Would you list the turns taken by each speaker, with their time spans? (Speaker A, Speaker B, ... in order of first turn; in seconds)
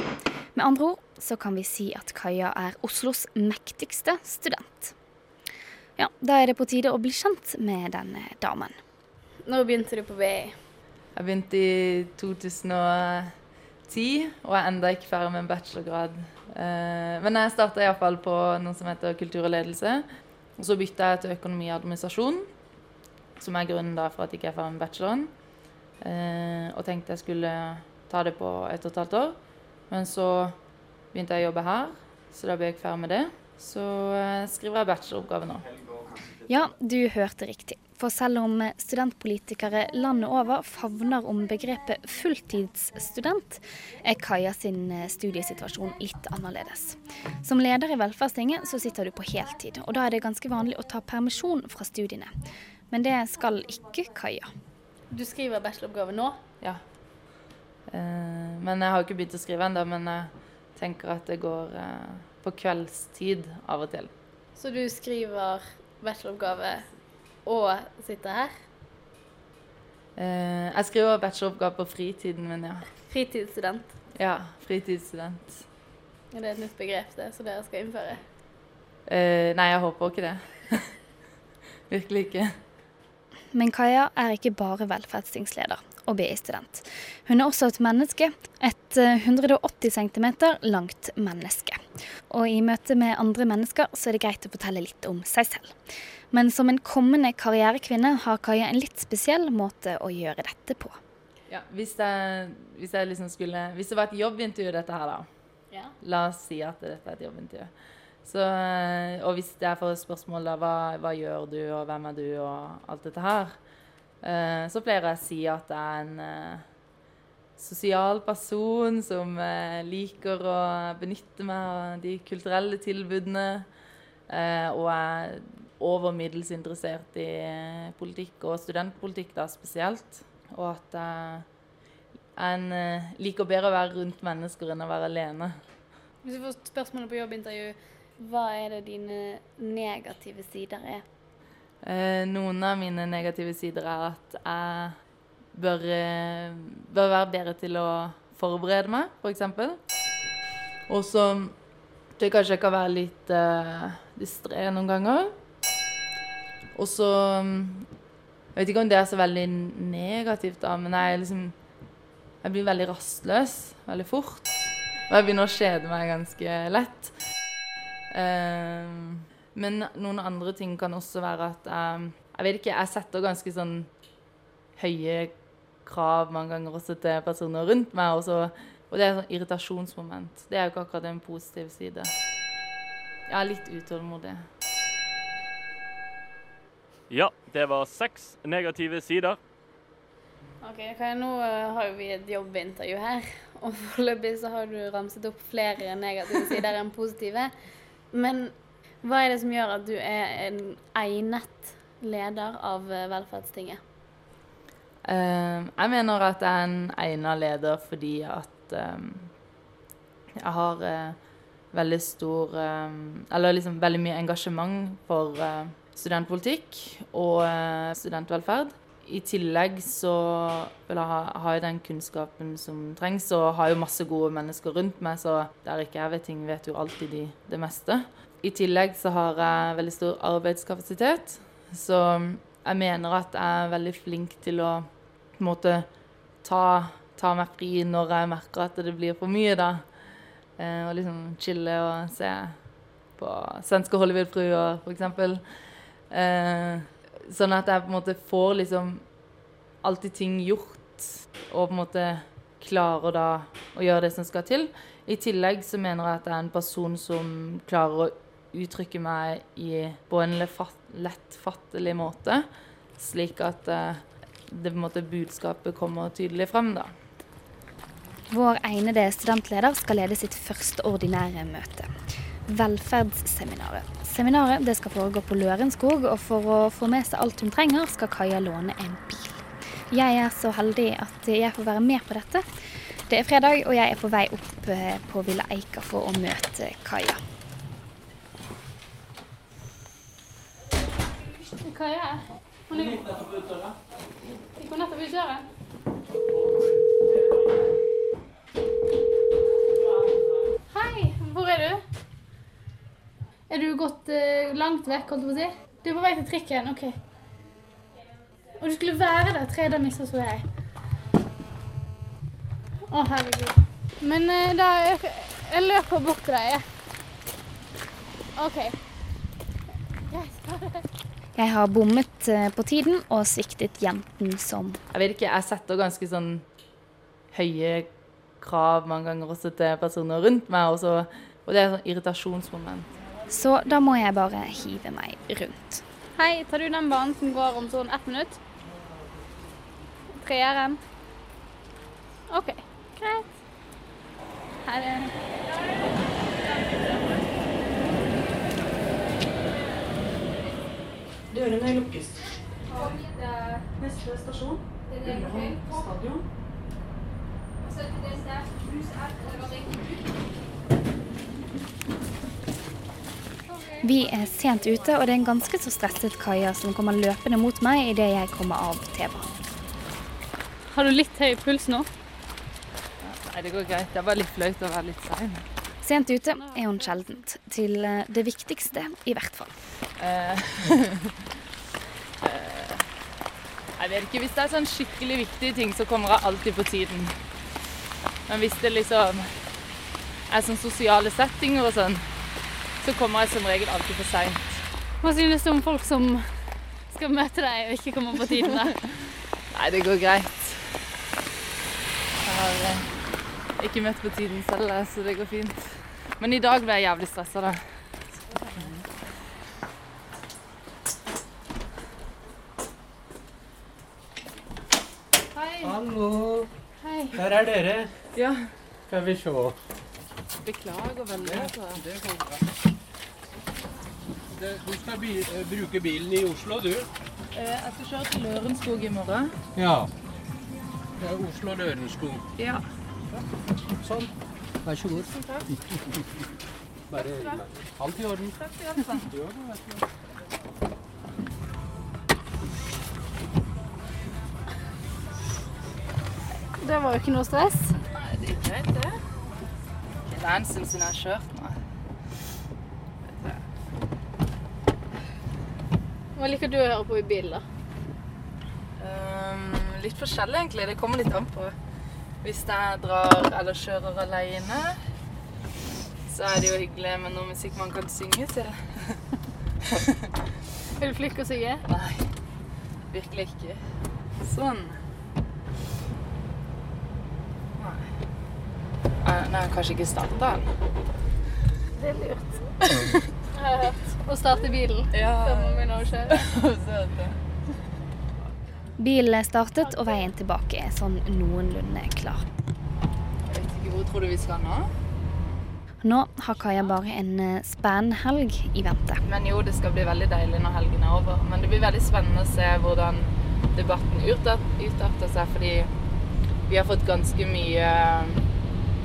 Speaker A: 0.6-4.9, 6.0-8.7, 36.5-52.3, 52.9-54.5, 83.5-91.8, 92.3-95.7, 96.3-101.0, 268.3-271.9, 272.5-282.4, 283.1-287.2, 321.4-324.8, 333.3-335.8, 363.8-369.3, 375.8-379.5, 488.8-492.3, 495.8-499.0
Speaker B: 9.4-10.6, 55.1-56.4, 64.6-66.9, 67.5-68.5, 73.0-73.9, 76.3-78.2, 136.2-141.0, 190.6-197.5, 198.1-203.8, 291.2-293.4, 294.6-295.5, 300.7-301.8, 303.5-307.0, 308.6-310.5, 312.9-316.7, 318.4-318.8, 320.1-320.9, 336.1-338.4, 340.1-340.8, 342.3-343.3, 344.6-345.2, 352.8-353.6, 354.9-355.8, 357.7-359.8, 363.5-364.0, 370.7-371.9, 376.3-377.2, 395.0-398.8, 415.4-415.8, 416.8-417.2, 446.6-447.8, 456.1-457.4, 470.8-471.6, 481.8-482.5, 483.4-486.3
Speaker C: 11.2-13.3, 13.9-20.0, 20.6-22.5, 23.4-25.3, 26.0-29.4, 29.9-30.6, 31.1-35.7, 57.9-64.1, 70.2-72.9, 74.2-75.7, 79.1-81.0, 81.9-82.5, 101.5-105.3, 106.0-107.7, 108.2-113.6, 114.2-116.7, 117.6-123.7, 124.3-131.5, 132.4-135.6, 141.8-145.0, 145.5-149.8, 150.9-151.6, 152.2-155.3, 156.7-157.9, 158.6-161.6, 162.4-167.1, 168.1-173.9, 174.8-182.1, 183.3-184.4, 205.1-209.3, 210.4-211.2, 211.7-234.9, 235.4-235.9, 236.4-239.8, 240.6-242.6, 243.2-245.4, 246.1-249.1, 249.8-262.5, 263.0-266.9, 324.9-326.5, 327.3-327.9, 328.4-332.9, 373.0-375.4, 380.0-381.3, 382.2-382.9, 383.8-387.2, 388.3-389.4, 390.3-392.1, 392.8-394.6, 399.5-400.8, 402.2-402.9, 403.6-407.6, 418.1-418.4, 420.4-421.9, 427.3-429.4, 432.4-432.6, 434.9-435.5, 438.4-439.1, 447.9-449.0, 450.1-451.6, 453.1-453.4, 458.8-461.6, 462.2-464.8, 466.1-469.0, 469.7-470.1, 471.7-472.1, 472.9-473.6, 474.2-474.8, 477.6-477.9, 479.0-480.5, 482.6-483.1, 484.9-487.2, 493.3-494.7, 499.1-505.7, 506.5-508.2
Speaker D: 187.1-189.4
Speaker E: 351.3-352.1, 353.8-356.2
Speaker F: 415.6-416.5, 417.1-417.9, 418.9-419.6, 421.2-422.4, 424.4-426.9, 429.6-429.9, 431.0-432.2, 433.8-434.1, 434.6-435.1, 436.9-438.4, 439.1-439.8